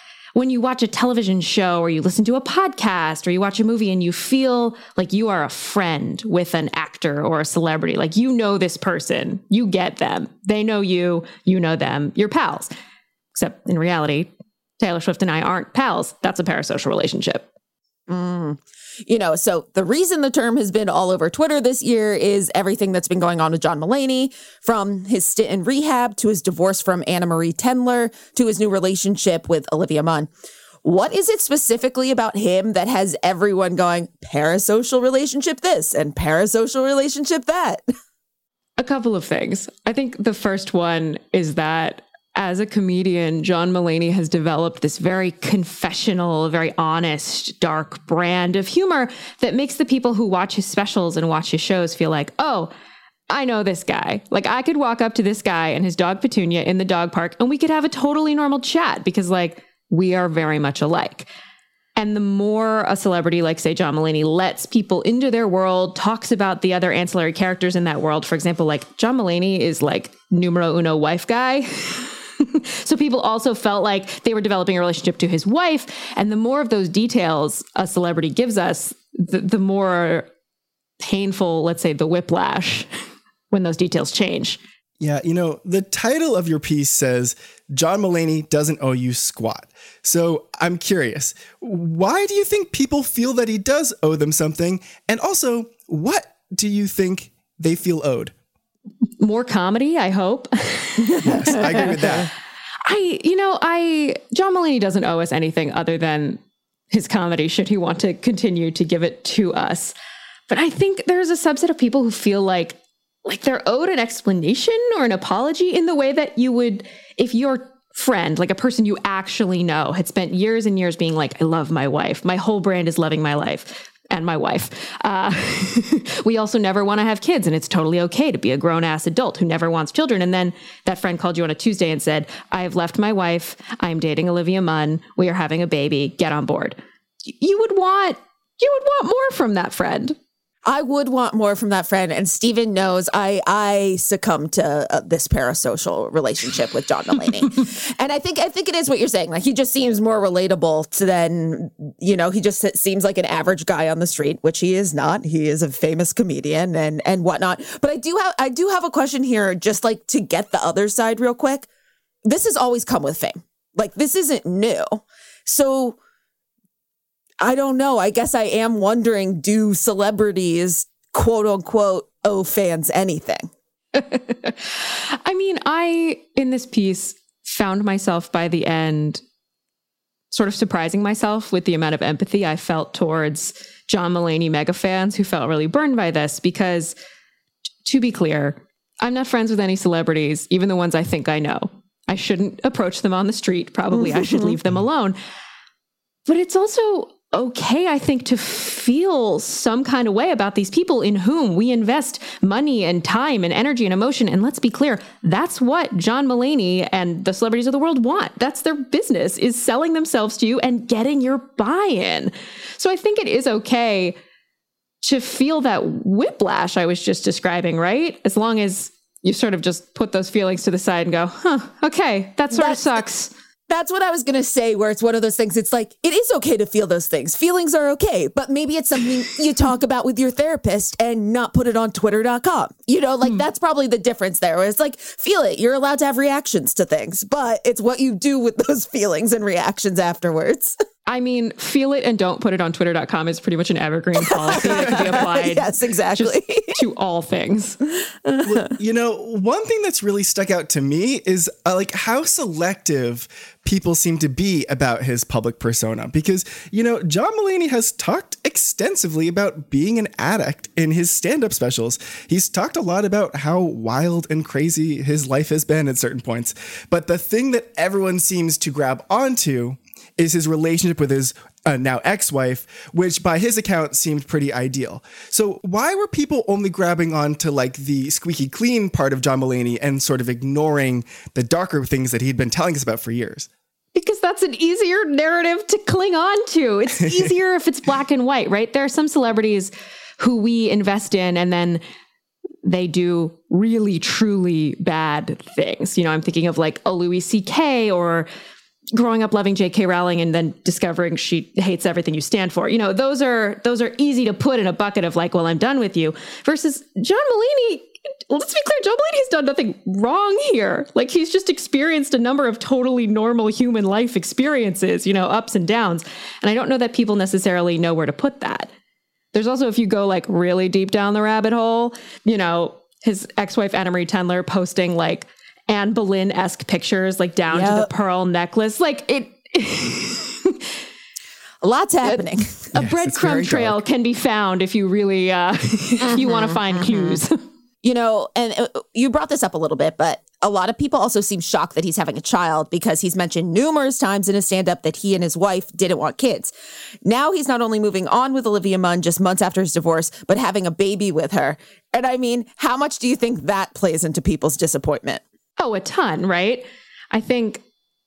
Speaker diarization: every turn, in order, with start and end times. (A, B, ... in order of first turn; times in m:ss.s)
0:00.3-0:12.7 A
0:13.3-0:14.3 A
0:14.8-0:17.5 A
0:18.1-0:30.3 B
0:30.8-0:37.8 B
0:38.8-0:52.7 A
0:53.3-1:01.3 A
1:02.0-1:20.3 A
1:21.0-1:22.9 A
1:23.5-1:24.6 A
1:25.0-1:38.3 C
1:39.2-1:41.9 A
1:41.0-1:42.3 B
1:41.2-1:42.3 C
1:42.8-1:46.4 A
1:46.9-1:49.9 A
1:50.5-2:20.2 A
2:20.6-2:41.7 B
2:42.2-2:46.0 B
2:47.4-2:53.5 B
2:53.9-2:59.2 A
3:00.3-3:07.0 A
3:07.8-3:15.2 A
3:13.9-3:14.6 B
3:16.3-3:34.2 A
3:35.0-3:43.3 A
3:42.5-3:43.0 B
3:43.7-4:00.8 B
4:01.0-4:07.8 A
4:04.2-4:06.7 B
4:08.2-4:08.6 B
4:08.4-4:43.5 C
4:43.9-4:51.8 A
4:52.6-4:58.3 A
4:58.9-5:18.7 A
5:19.3-5:30.7 A
5:27.5-5:27.9 B
5:31.6-5:32.5 B
5:32.0-5:37.4 A
5:32.7-5:33.8 C
5:36.0-5:37.2 B
5:37.8-5:46.5 B
5:47.0-5:55.2 B
5:55.6-5:57.6 A